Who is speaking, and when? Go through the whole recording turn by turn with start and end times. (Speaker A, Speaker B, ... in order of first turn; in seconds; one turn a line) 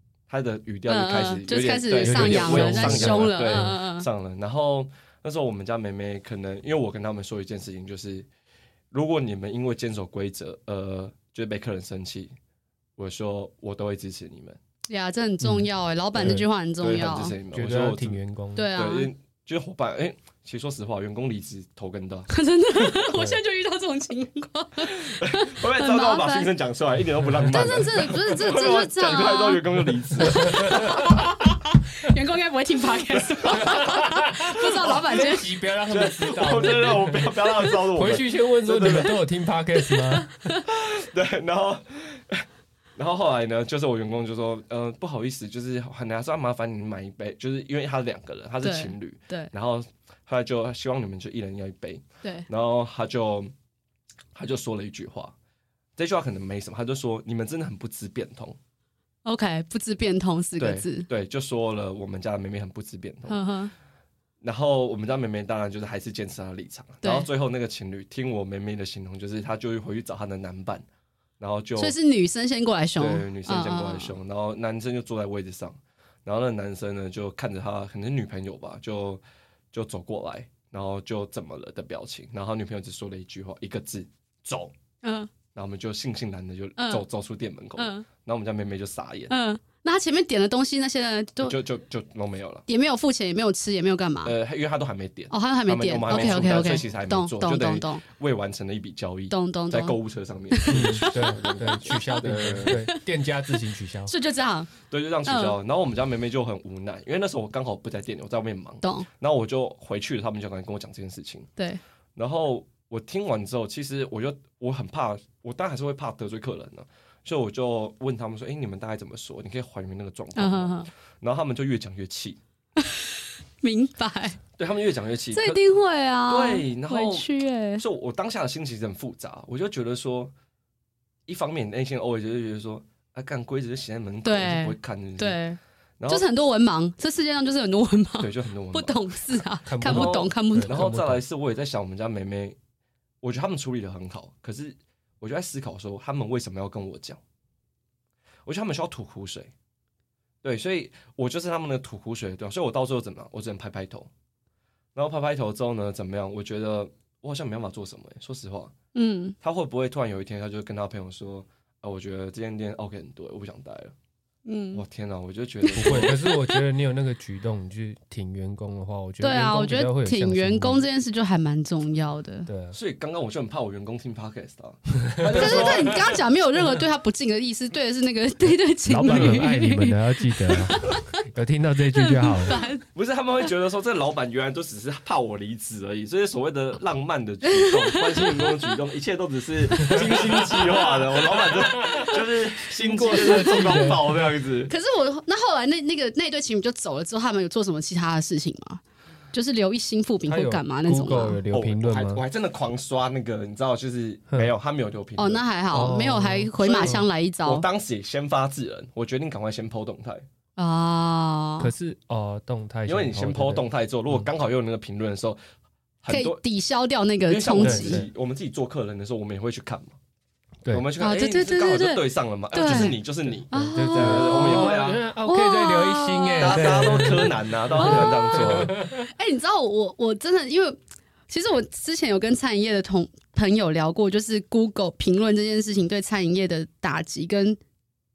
Speaker A: 0.3-8.3
Speaker B: 0.9-4.1
Speaker C: 2.0-3.8
Speaker A: 8.9-12.3
Speaker A: 13.0-14.6
Speaker B: 14.9-17.3
Speaker A: 16.2-18.2
Speaker C: 17.5-18.7
Speaker B: 18.6-19.1
Speaker A: 18.8-22.3
Speaker B: 22.3-26.5
Speaker A: 25.1-31.3
Speaker B: 27.5-29.6
Speaker B: 30.2-35.5
Speaker C: 30.4-31.1
Speaker C: 33.5-40.3
Speaker A: 35.9-39.2
Speaker B: 39.8-40.6
Speaker A: 40.7-42.5
Speaker A: 43.0-53.5
Speaker B: 48.6-49.5
Speaker A: 54.3-55.4
Speaker A: 56.0-58.6
Speaker B: 59.2-61.1
Speaker A: 60.6-63.4
Speaker B: 63.3-63.7
Speaker A: 64.4-70.8
Speaker B: 67.0-67.3
Speaker A: 71.4-72.0
Speaker B: 71.8-74.1
Speaker A: 73.0-84.7
Speaker B: 85.0-85.3
Speaker A: 85.5-89.3
Speaker B: 86.8-87.0
Speaker B: 87.8-88.0
Speaker B: 89.3-91.5
Speaker A: 91.4-92.7
Speaker B: 92.7-94.3
Speaker A: 94.2-102.8
Speaker B: 95.3-98.0
Speaker B: 99.3-100.0
Speaker B: 100.5-102.0
Speaker C: 100.7-104.1
Speaker B: 102.7-103.0
Speaker B: 104.1-104.7
Speaker A: 104.9-111.5
Speaker B: 105.3-105.6
Speaker B: 108.8-109.1
Speaker A: 112.2-122.4
Speaker B: 120.4-120.9
Speaker B: 122.8-123.1
Speaker B: 123.6-124.4
Speaker A: 124.6-125.6
Speaker B: 125.3-127.8
Speaker A: 126.3-130.3
Speaker A: 131.3-135.4
Speaker B: 134.2-135.6
Speaker A: 136.0-136.2
Speaker B: 136.1-140.8
Speaker A: 138.2-139.0
Speaker C: 139.7-141.2
Speaker A: 139.8-142.6
Speaker A: 143.2-147.2
Speaker A: 148.5-149.5
Speaker A: 150.4-154.1
Speaker A: 154.9-158.7
Speaker B: 158.9-159.4
Speaker A: 159.4-163.9
Speaker B: 164.5-164.8
Speaker A: 164.7-166.1
Speaker B: 165.6-166.6
Speaker C: 165.8-170.8
Speaker B: 169.2-172.5
Speaker C: 172.5-172.8
Speaker A: 172.7-176.2
Speaker C: 175.1-175.7
Speaker B: 175.3-180.0
Speaker C: 178.9-182.6
Speaker A: 180.7-181.0
Speaker B: 181.9-182.8
Speaker A: 182.9-194.7
Speaker B: 187.5-188.7
Speaker C: 189.8-192.2
Speaker C: 192.7-194.3
Speaker B: 193.0-193.9
Speaker B: 194.7-198.8
Speaker B: 199.3-201.4
Speaker C: 200.3-202.2
Speaker A: 201.5-205.4
Speaker B: 205.2-207.7
Speaker C: 205.7-207.1
Speaker A: 206.6-210.2
Speaker B: 210.6-211.7
Speaker C: 211.6-214.3
Speaker A: 212.9-215.4
Speaker A: 216.0-216.4
Speaker B: 216.1-218.0
Speaker A: 217.3-220.0
Speaker C: 217.6-218.1
Speaker A: 220.7-225.0
Speaker B: 221.0-223.0
Speaker B: 223.5-227.1
Speaker C: 223.5-229.1
Speaker A: 226.4-228.8
Speaker B: 227.8-230.8
Speaker B: 231.3-237.6